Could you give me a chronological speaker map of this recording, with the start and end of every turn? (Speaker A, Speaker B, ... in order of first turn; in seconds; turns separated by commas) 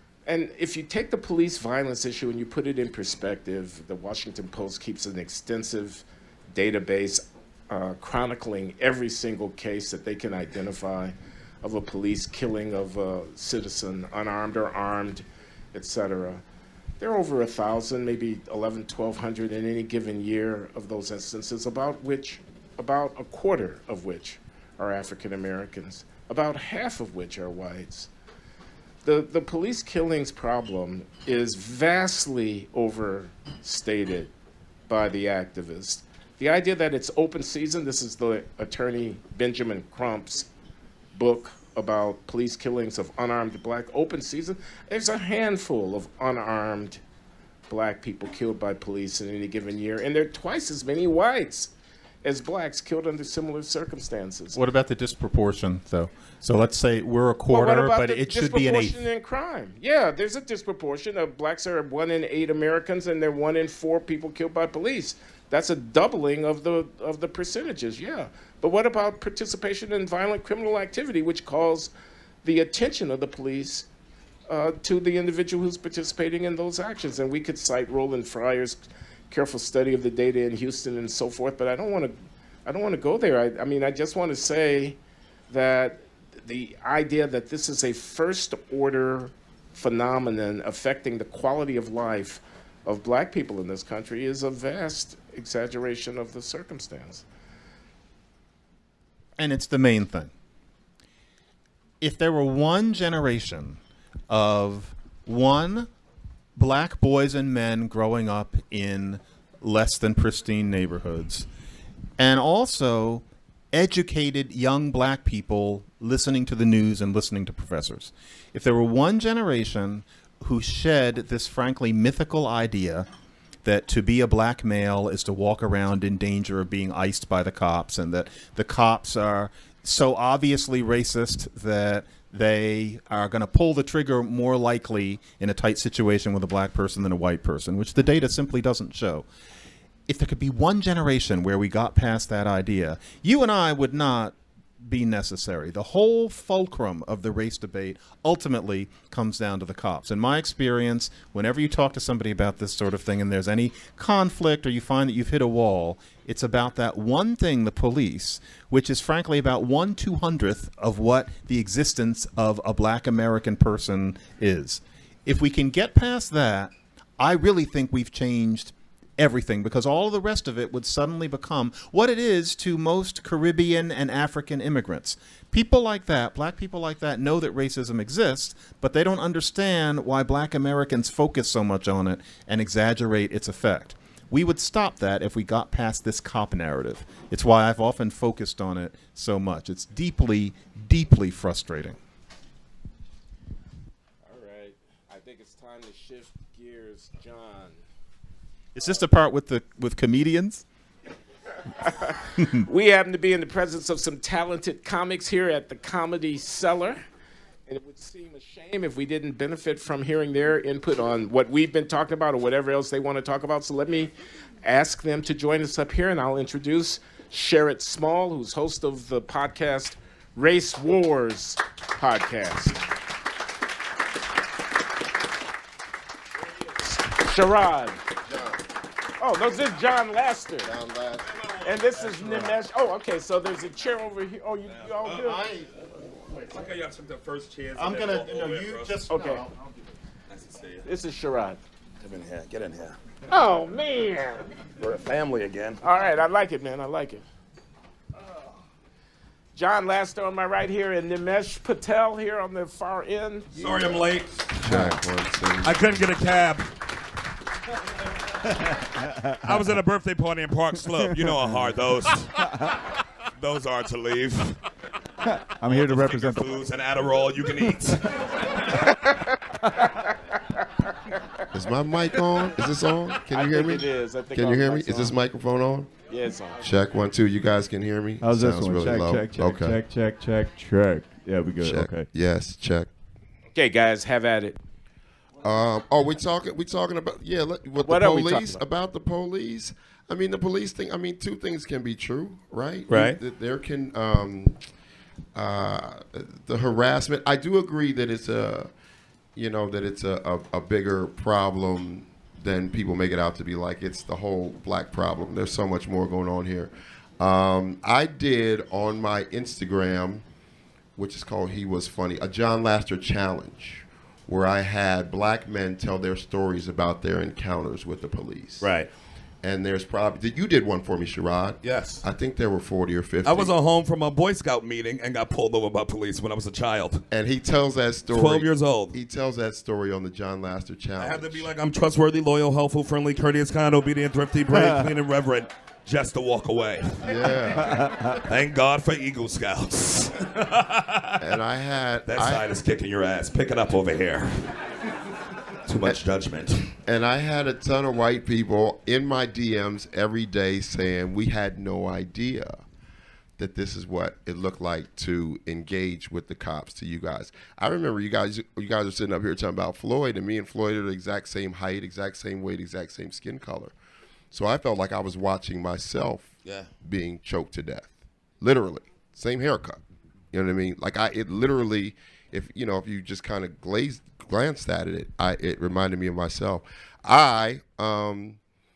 Speaker A: 0.3-16.4, Speaker A: 17.0-28.1, Speaker A: 29.0-34.3, Speaker A: 34.9-40.5, Speaker A: 41.1-47.0, Speaker A: 47.7-51.7, Speaker A: 52.2-54.6, Speaker B: 54.5-59.0, Speaker A: 57.5-71.9, Speaker A: 72.4-73.9, Speaker A: 74.5-82.1, Speaker A: 82.7-85.0, Speaker A: 85.5-97.2, Speaker B: 99.4-100.3, Speaker B: 102.0-105.9, Speaker B: 106.6-111.5, Speaker B: 112.2-123.1, Speaker B: 123.7-139.3, Speaker B: 140.1-192.0, Speaker A: 194.2-197.8, Speaker B: 198.8-200.6, Speaker A: 201.8-207.0, Speaker A: 207.7-222.8, Speaker A: 226.8-228.0, Speaker C: 228.3-228.6, Speaker A: 229.2-230.7, Speaker C: 230.6-231.3, Speaker D: 231.3-232.5, Speaker A: 231.6-235.5, Speaker D: 234.7-235.3, Speaker B: 235.2-235.7, Speaker D: 236.3-239.0, Speaker B: 237.8-239.7, Speaker A: 239.1-239.4, Speaker D: 240.3-240.9, Speaker A: 240.8-241.6, Speaker D: 242.0-243.0, Speaker A: 243.3-244.5, Speaker D: 244.8-245.8, Speaker A: 245.8-247.2, Speaker A: 249.6-253.5, Speaker D: 253.6-254.3, Speaker C: 253.6-254.0, Speaker C: 254.5-255.9, Speaker D: 255.6-256.7, Speaker E: 259.1-259.4, Speaker D: 259.4-262.4, Speaker E: 261.2-261.6, Speaker E: 262.4-262.8, Speaker D: 263.4-264.6, Speaker E: 265.2-266.6, Speaker D: 265.6-268.6, Speaker A: 269.9-271.4, Speaker C: 271.5-275.9, Speaker A: 273.3-275.2, Speaker A: 276.1-276.6, Speaker C: 276.6-279.8, Speaker E: 278.2-282.1, Speaker C: 281.6-282.9, Speaker A: 283.5-284.6, Speaker C: 285.4-294.6, Speaker A: 287.8-288.6, Speaker D: 292.9-293.2, Speaker C: 295.4-298.7, Speaker C: 299.4-310.2, Speaker C: 311.0-318.7, Speaker D: 318.6-318.9, Speaker C: 319.4-323.5, Speaker D: 321.6-322.0, Speaker D: 323.2-327.0, Speaker C: 327.1-331.5, Speaker D: 328.1-329.0, Speaker D: 331.0-341.2, Speaker C: 337.0-337.9, Speaker E: 337.7-338.2, Speaker C: 341.2-342.4, Speaker D: 342.1-344.5, Speaker D: 345.7-346.7, Speaker C: 346.8-352.6, Speaker C: 353.4-363.7, Speaker C: 364.3-369.8, Speaker D: 366.4-366.7, Speaker C: 370.3-378.4